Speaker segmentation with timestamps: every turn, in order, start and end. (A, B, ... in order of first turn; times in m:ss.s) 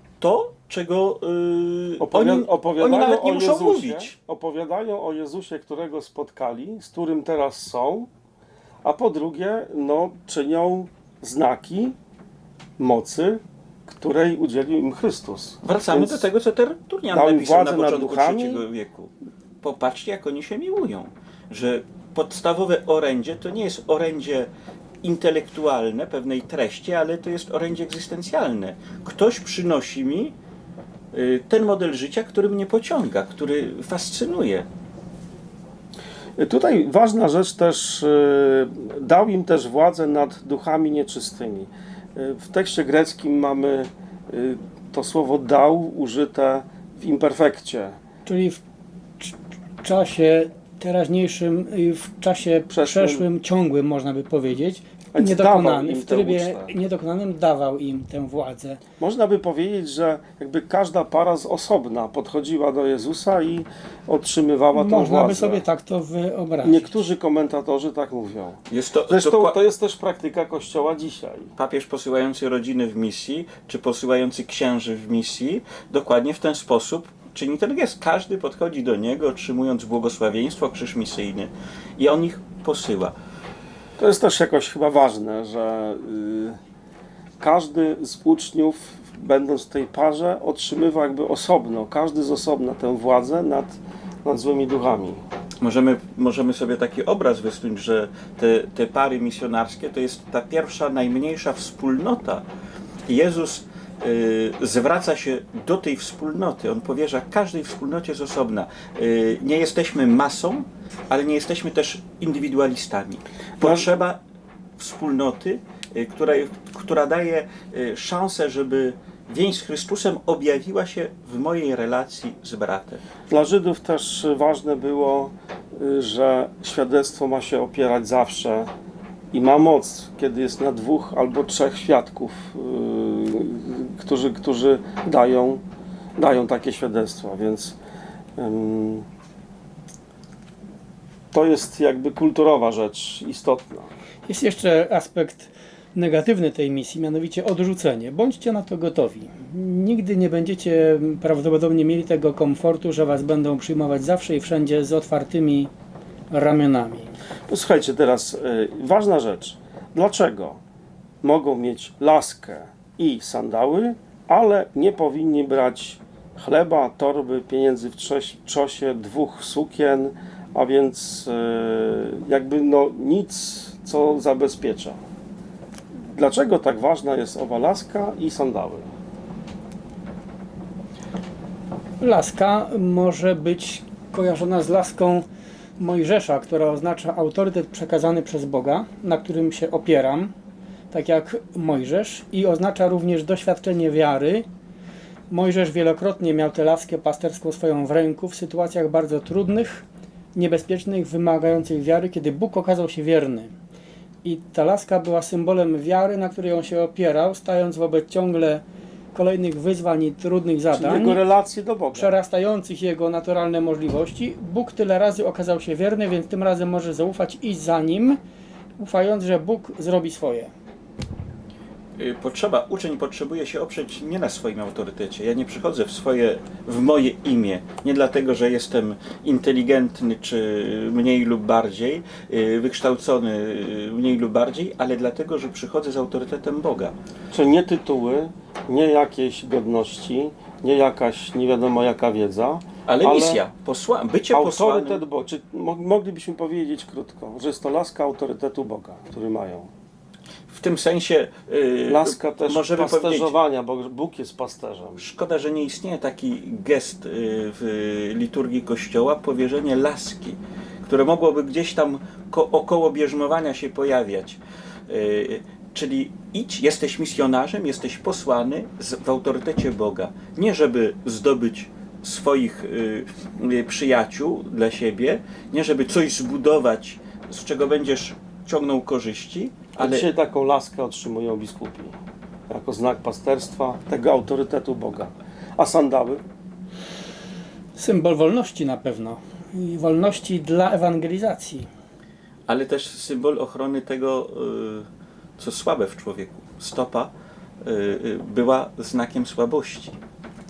0:00.2-0:04.1 A
0:02.0-0:08.1 B
0:08.8-0:11.9 B
0:12.8-0:16.3 B
0:15.6-0:24.5 A
0:17.1-0:18.6 B
0:25.0-0:30.3 A
0:31.1-0:34.7 A
0:36.4-0:48.0 B
0:48.2-0:48.6 C
0:49.2-0:58.8 C
0:52.7-0:53.2 B
0:55.1-0:56.7 B
0:59.0-1:05.6 B
1:04.7-1:07.0 C
1:06.6-1:11.5 B
1:08.7-1:09.6 A
1:11.6-1:23.2 A
1:24.0-1:26.6 B
1:27.4-1:35.2 B
1:35.6-1:42.4 A
1:43.1-1:54.2 A
1:53.6-1:53.9 B
1:54.8-2:03.0 A
2:03.3-2:08.7 B
2:09.3-2:15.6 B
2:16.2-2:17.8 B
2:18.4-2:19.0 B
2:21.3-2:23.9 B
2:24.3-2:35.7 C
2:36.3-2:37.1 C
2:37.5-2:40.6 B
2:41.2-2:55.0 B
2:56.1-2:58.9 B
3:02.0-3:05.2 C
3:05.8-3:10.3 C
3:10.9-3:14.5 C
3:15.3-3:23.5 C
3:24.2-3:31.2 C
3:30.7-3:32.2 B
3:31.9-3:38.2 C
3:38.8-3:40.5 C
3:42.0-3:57.0 A
3:57.3-4:03.4 B
4:02.8-4:05.0 A
4:04.3-4:09.7 B
4:10.5-4:13.3 A
4:11.9-4:15.0 B
4:15.0-4:40.1 A
4:39.8-4:42.0 B
4:42.5-4:46.2 B
4:47.8-4:51.7 C
4:52.5-4:54.8 A
4:55.4-4:57.1 A
4:57.6-5:00.0 A